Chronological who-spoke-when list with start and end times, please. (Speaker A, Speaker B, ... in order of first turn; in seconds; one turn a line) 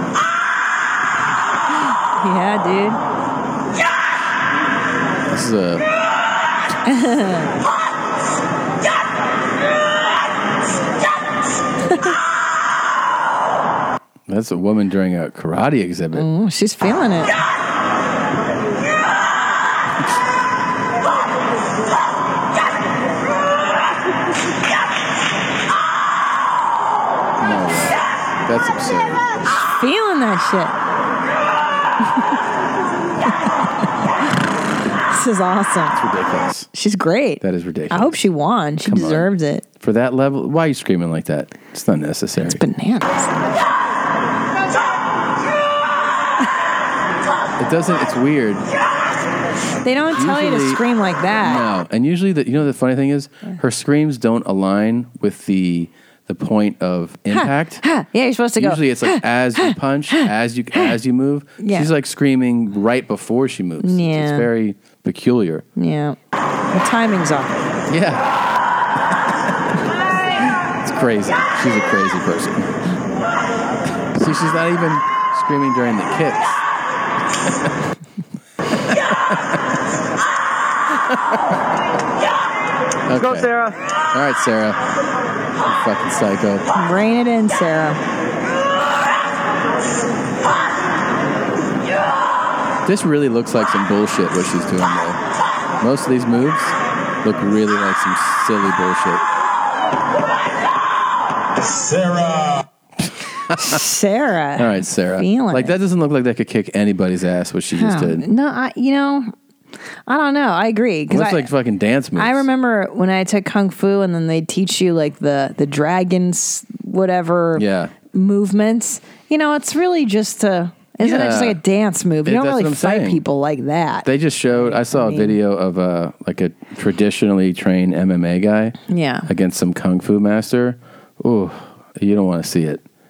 Speaker A: 2.2-3.0
Speaker B: 5.3-5.8
Speaker A: 6.8-7.5
Speaker B: 14.3-16.3
Speaker A: 16.1-17.3
Speaker B: 27.4-29.2
Speaker A: 29.5-30.7
Speaker A: 32.0-32.3
Speaker A: 35.1-36.0
Speaker B: 35.9-36.7
Speaker A: 36.7-39.6
Speaker B: 37.4-38.2
Speaker B: 38.9-39.3
Speaker B: 39.8-42.6
Speaker A: 42.4-43.3
Speaker B: 47.6-48.6
Speaker A: 49.8-51.6
Speaker B: 50.1-50.8
Speaker B: 51.4-57.8
Speaker A: 57.3-61.0
Speaker B: 58.5-65.6
Speaker A: 61.6-61.9
Speaker A: 63.8-64.5
Speaker A: 65.8-66.2
Speaker A: 66.7-67.6
Speaker B: 67.9-68.3
Speaker B: 70.8-72.8
Speaker B: 74.1-76.6
Speaker B: 78.9-79.3
Speaker B: 81.1-81.4
Speaker B: 83.1-83.5
Speaker A: 83.2-83.7
Speaker B: 84.1-84.8
Speaker B: 85.7-86.6
Speaker A: 86.7-88.0
Speaker B: 92.8-95.2
Speaker B: 95.8-99.2
Speaker B: 103.5-103.8
Speaker A: 103.6-105.7
Speaker B: 104.6-108.2
Speaker A: 107.7-109.3
Speaker A: 110.1-111.5
Speaker B: 111.1-112.4
Speaker A: 112.2-125.4
Speaker B: 117.5-117.9
Speaker B: 121.0-121.6
Speaker B: 122.2-123.2
Speaker B: 124.0-132.8
Speaker A: 128.9-129.3